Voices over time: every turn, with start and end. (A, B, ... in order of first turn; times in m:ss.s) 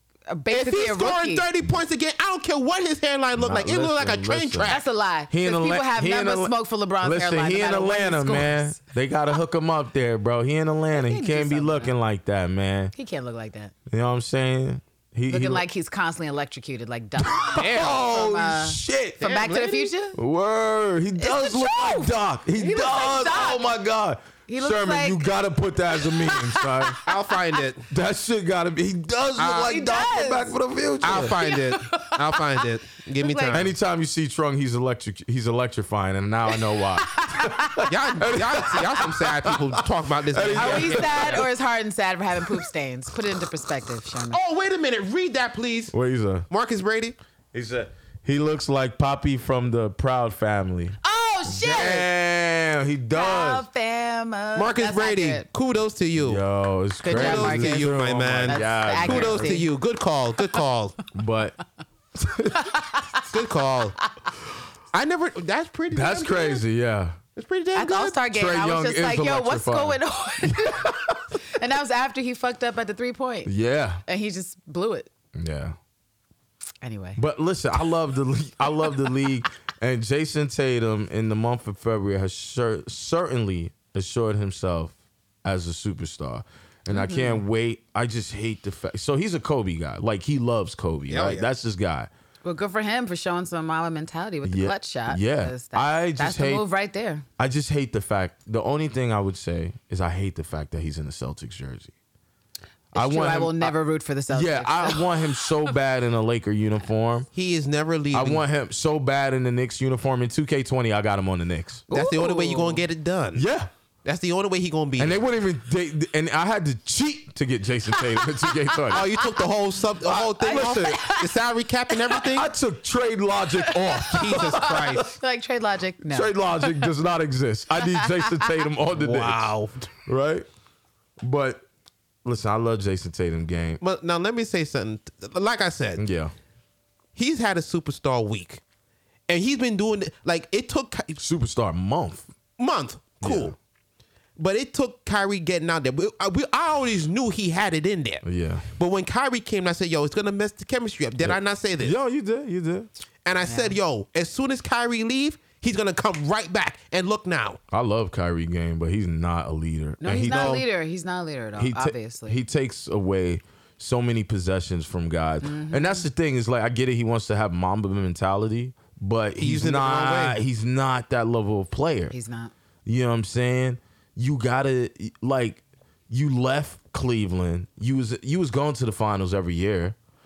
0:00.3-0:01.5 A
0:00.5-0:04.8 B
0:03.4-0:12.9 C
0:04.6-0:08.8 A
0:10.9-0:11.9 A
0:12.9-0:13.7 A
0:13.9-0:15.6 C
0:15.3-0:20.2 A
0:17.2-0:19.2 C
0:17.6-0:18.2 B
0:19.2-0:19.9 B
0:20.1-0:27.0 C
0:21.2-0:23.7 A
0:24.5-0:25.3 A
0:25.9-0:27.1 A
0:27.0-0:27.9 B
0:27.9-0:31.4 C
0:29.4-0:29.7 B
0:29.5-0:30.5 A
0:31.0-0:33.7 B
0:31.2-0:33.6 A
0:33.5-0:41.5 C
0:37.0-0:38.0 A
0:37.8-0:41.4 B
0:40.5-0:44.4 A
0:44.3-0:45.9 B
0:45.9-0:46.4 C
0:46.5-0:47.2 B
0:47.5-0:53.7 C
0:51.0-0:52.0 A
0:51.6-0:52.1 B
0:53.1-0:55.4 A
0:54.5-0:56.4 B
0:56.2-0:59.6 C
0:57.0-0:57.9 A
0:57.1-1:01.0 B
0:58.5-0:59.7 A
1:01.1-1:01.6 C
1:02.2-1:02.7 C
1:02.5-1:03.2 A
1:03.2-1:04.0 B
1:04.9-1:06.6 B
1:05.9-1:07.2 C
1:07.4-1:08.2 B
1:07.7-1:13.5 A
1:08.3-1:11.2 C
1:13.4-1:14.0 C
1:14.1-1:15.1 A
1:15.3-1:15.8 C
1:16.8-1:17.2 A
1:17.2-1:32.1 C
1:26.9-1:27.4 A
1:31.1-1:31.5 B
1:32.4-1:37.2 A
1:34.4-1:36.6 C
1:37.4-1:41.9 C
1:42.9-1:45.2 A
1:42.9-1:43.7 C
1:44.3-1:47.3 C
1:47.3-1:48.4 B
1:48.1-1:51.9 C
1:51.9-1:52.8 A
1:51.9-1:53.4 B
1:53.3-1:53.7 C
1:54.0-1:55.2 B
1:55.0-1:59.1 C
1:58.9-2:02.5 B
2:00.0-2:01.0 C
2:00.4-2:01.4 A
2:02.2-2:04.9 C
2:03.6-2:06.9 A
2:04.1-2:05.1 B
2:06.1-2:09.5 C
2:07.9-2:08.5 A
2:08.9-2:09.9 B
2:10.0-2:10.4 C
2:11.2-2:11.6 C
2:12.2-2:13.8 C
2:13.8-2:16.0 B
2:16.0-2:16.3 C
2:17.2-2:18.6 B
2:19.3-2:21.2 B
2:21.2-2:22.3 C
2:22.6-2:23.5 B
2:23.2-2:23.6 C
2:24.4-2:28.2 B
2:28.2-2:28.7 C
2:28.8-2:32.0 B
2:31.2-2:32.9 C
2:33.2-2:37.6 B
2:33.4-2:33.8 A
2:37.7-2:40.7 C
2:40.0-2:42.4 A
2:40.1-2:40.6 B
2:41.6-2:52.1 C
2:45.4-2:46.0 A
2:49.4-2:50.4 B
2:52.1-2:52.5 A
2:52.8-3:00.0 C